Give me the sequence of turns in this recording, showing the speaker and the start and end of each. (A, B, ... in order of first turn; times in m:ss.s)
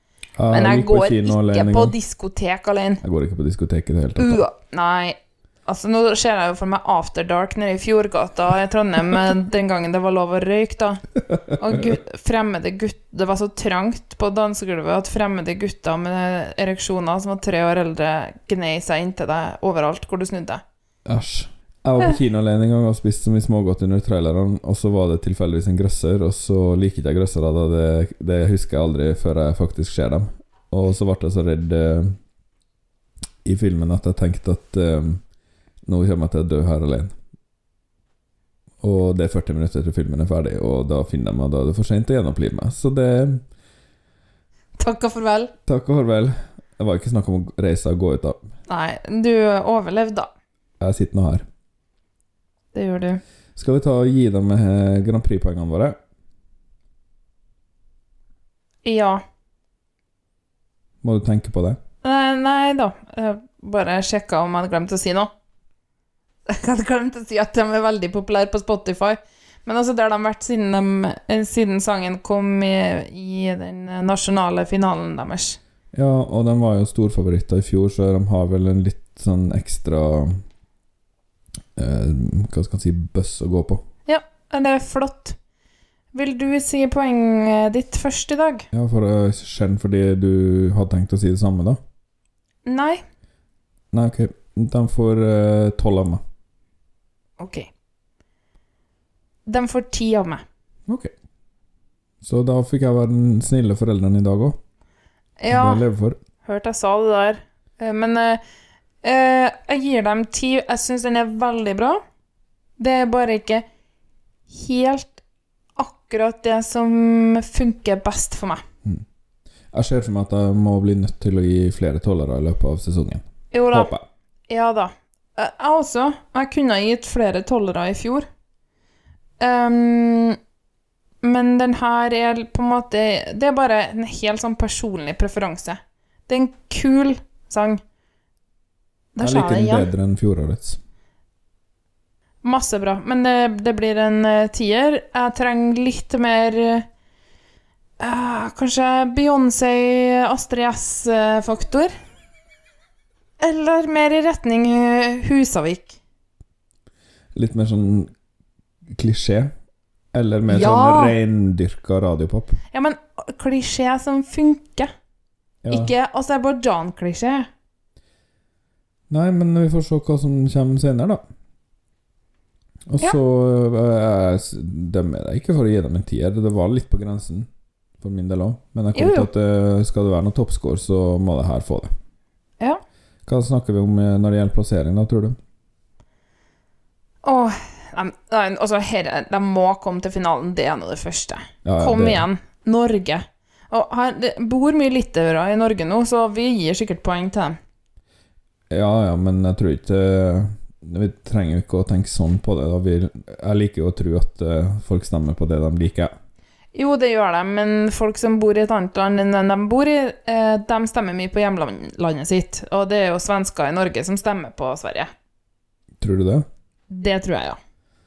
0:00.4-0:01.9 A
0:00.5-0:03.0 B
0:03.0-0:04.4 A
0:04.2-0:11.0 B
0:11.6-0:20.6 B
0:21.0-0:32.2 A
0:33.4-0:35.2 A
0:35.9-0:37.1 A
0:38.8-0:43.4 A
0:44.8-0:45.5 B
0:45.6-0:48.4 A
0:48.7-0:50.3 B
0:50.8-0:51.4 A
0:52.7-0:53.2 B
0:53.6-0:56.0 A
0:58.8-0:59.2 B
1:01.0-1:01.8 A
1:02.0-1:05.3 B
1:06.5-1:15.6 B
1:15.9-1:20.4 A
1:21.8-1:23.8 A
1:24.0-1:25.4 B
1:26.1-1:28.7 B
1:28.7-1:31.8 A
1:32.7-1:33.0 B
1:33.9-1:36.2 A
1:37.4-1:37.7 B
1:39.5-1:40.4 B
1:42.2-1:44.6 A
1:45.4-1:45.8 B
1:45.5-1:46.2 A
1:46.4-1:48.4 B
1:49.0-1:52.0 B
1:52.8-1:53.6 B
1:54.5-1:55.2 B
1:55.8-1:58.6 B
1:59.7-2:04.0 A
2:03.5-2:03.9 B
2:04.5-2:08.3 B
2:09.4-2:10.4 B
2:11.2-2:17.8 B
2:19.2-2:19.9 B
2:19.2-2:20.8 A
2:22.4-2:26.9 B
2:28.0-2:31.9 B
2:33.4-2:36.0 B
2:37.3-2:38.1 A
2:38.9-2:39.5 A
2:40.1-2:42.6 A
2:40.5-2:41.2 B
2:42.7-2:44.9 B
2:45.6-2:45.9 A
2:45.7-2:47.5 B
2:49.1-2:51.2 A
2:52.9-2:57.5 A
2:58.0-3:01.9 A
2:59.0-2:59.3 B
3:03.2-3:05.4 A
3:07.2-3:17.6 B
3:11.6-3:12.2 A
3:18.7-3:26.1 A
3:26.7-3:35.1 B
3:36.0-3:36.5 A
3:36.9-3:37.6 B